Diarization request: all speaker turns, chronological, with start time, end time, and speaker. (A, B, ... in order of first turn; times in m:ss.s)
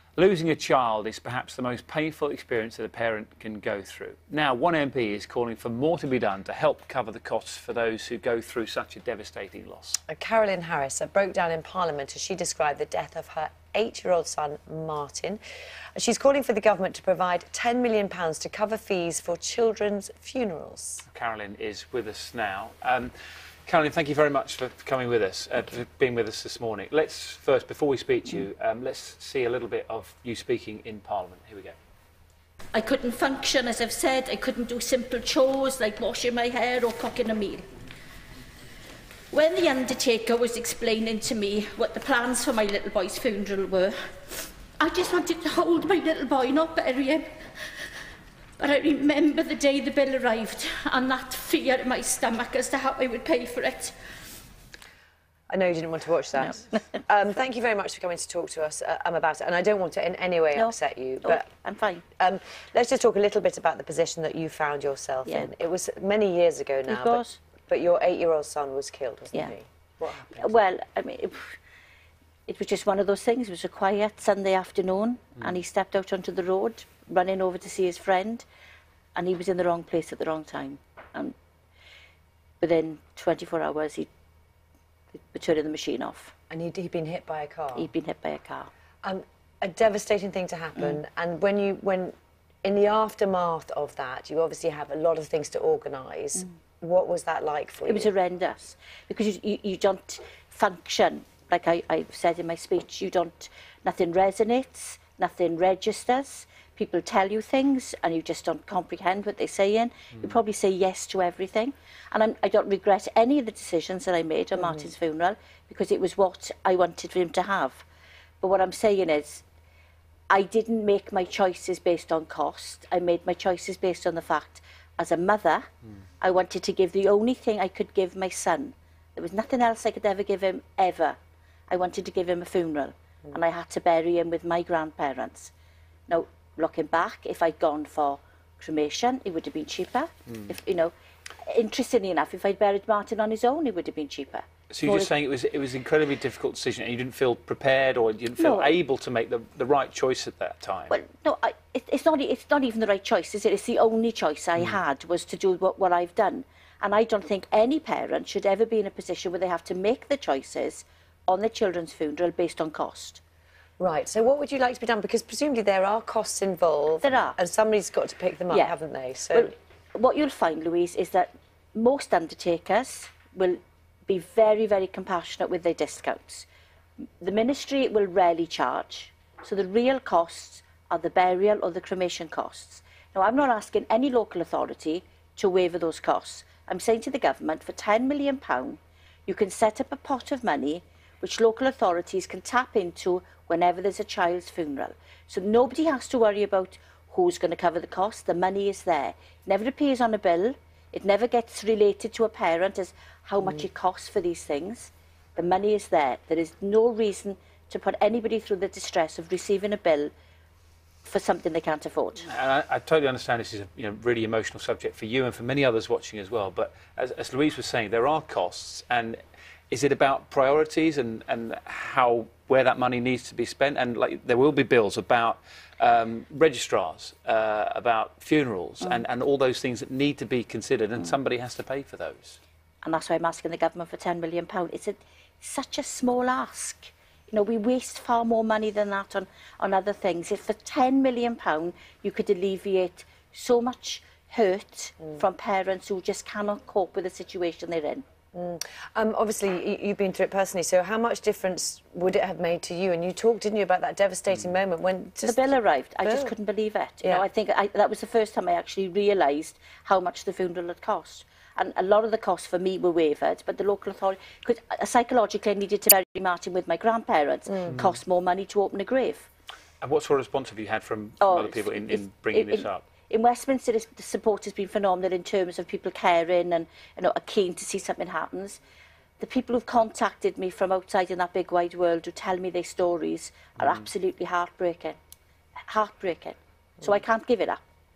0:00.2-0:10.0 A
0:10.1-0:15.4 B
0:16.0-0:21.0 B
0:21.1-0:23.1 A
0:23.7-0:31.8 A
0:32.7-0:37.7 C
0:39.3-0:44.0 C
0:44.8-0:47.3 C
0:48.6-0:54.0 C
0:55.5-1:01.5 B
1:00.5-1:02.0 C
1:02.2-1:10.6 B
1:05.2-1:05.5 C
1:06.9-1:07.4 C
1:10.4-1:11.5 C
1:12.5-1:18.4 C
1:19.2-1:21.3 C
1:22.6-1:24.1 C
1:25.1-1:26.3 C
1:26.5-1:27.9 B
1:27.8-1:28.7 C
1:29.0-1:38.1 B
1:37.9-1:57.8 C
1:58.4-1:59.4 C
2:00.3-2:05.6 C
2:06.2-2:11.2 C
2:11.7-2:15.5 C
2:16.1-2:20.9 C
2:21.4-2:25.1 C
2:24.7-2:31.0 A
2:28.4-2:28.8 C
2:30.9-2:43.2 C
2:43.8-2:49.5 B
2:47.0-2:47.4 C
2:49.3-2:56.5 C
2:57.2-3:30.1 C
3:31.0-3:32.3 C
3:32.2-3:52.4 A
3:52.8-4:08.0 C
4:08.3-4:16.3 B
4:15.2-4:29.3 C
4:29.8-4:32.8 A
4:31.2-4:38.6 C
4:39.2-4:45.0 C
4:43.6-4:43.9 A
4:45.7-4:47.6 C